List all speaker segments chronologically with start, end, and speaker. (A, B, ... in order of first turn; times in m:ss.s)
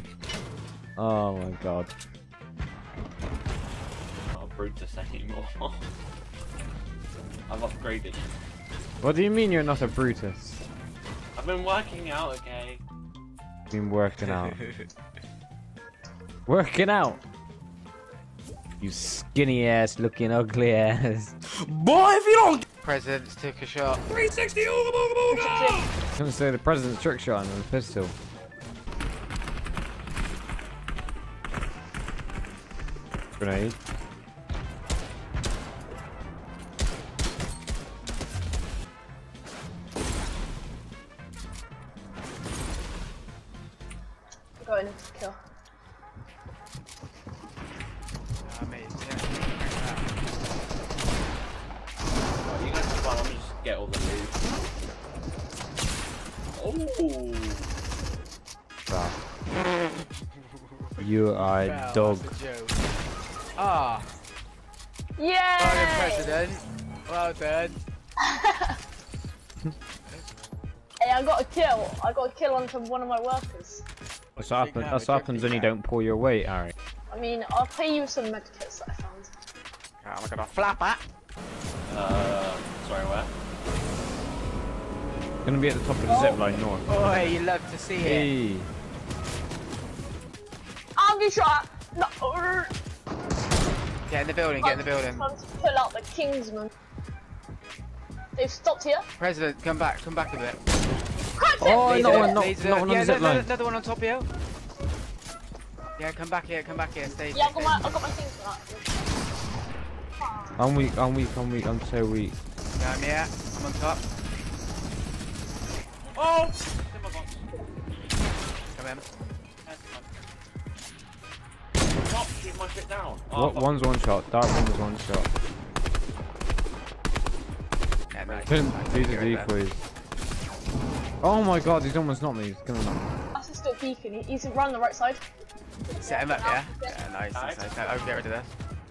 0:01.0-0:01.9 A
0:04.3-0:05.8 B
0:07.5-0:08.3 B
0:09.0-0:10.6 A
0:11.4-0:12.8 B
0:13.7-0:14.6 A
0:16.5-0:17.2 A
0:18.8-0:21.3 A
0:21.8-0:22.2 C
0:22.8-0:24.0 C
0:25.3-0:25.9 D
0:26.2-0:28.2 A
0:33.4-0:33.8 A
0:44.6-0:45.4 D
0:48.4-0:50.1 C
0:52.4-0:54.4 B
0:56.6-0:57.7 B
0:58.9-0:59.2 A
1:01.0-1:02.3 A
1:01.6-1:02.8 C
1:03.6-1:04.1 C
1:05.2-1:06.3 D
1:05.6-1:07.8 C
1:08.2-1:08.8 D
1:11.0-1:13.8 D
1:14.4-1:16.7 A
1:14.4-1:15.7 C
1:17.1-1:19.3 D
1:20.0-1:21.0 C
1:21.9-1:23.3 B
1:25.4-1:27.4 A
1:26.1-1:26.4 D
1:26.9-1:28.3 C
1:28.0-1:28.7 A
1:31.0-1:32.7 D
1:34.1-1:35.2 C
1:34.6-1:36.7 D
1:38.4-1:39.1 D
1:39.2-1:40.6 C
1:41.4-1:42.4 D
1:41.6-1:43.5 A
1:41.8-1:44.3 C
1:46.0-1:48.0 C
1:47.3-1:49.1 D
1:50.2-1:50.6 D
1:50.6-1:52.4 A
1:52.8-1:54.0 C
1:56.1-1:57.4 B
1:58.7-1:59.0 C
1:59.6-2:00.2 B
2:02.0-2:03.9 B
2:03.3-2:05.3 A
2:08.1-2:09.5 C
2:08.2-2:08.5 B
2:08.5-2:09.8 A
2:11.2-2:13.1 A
2:13.4-2:15.2 D
2:15.9-2:17.0 D
2:16.0-2:18.5 C
2:17.3-2:17.7 B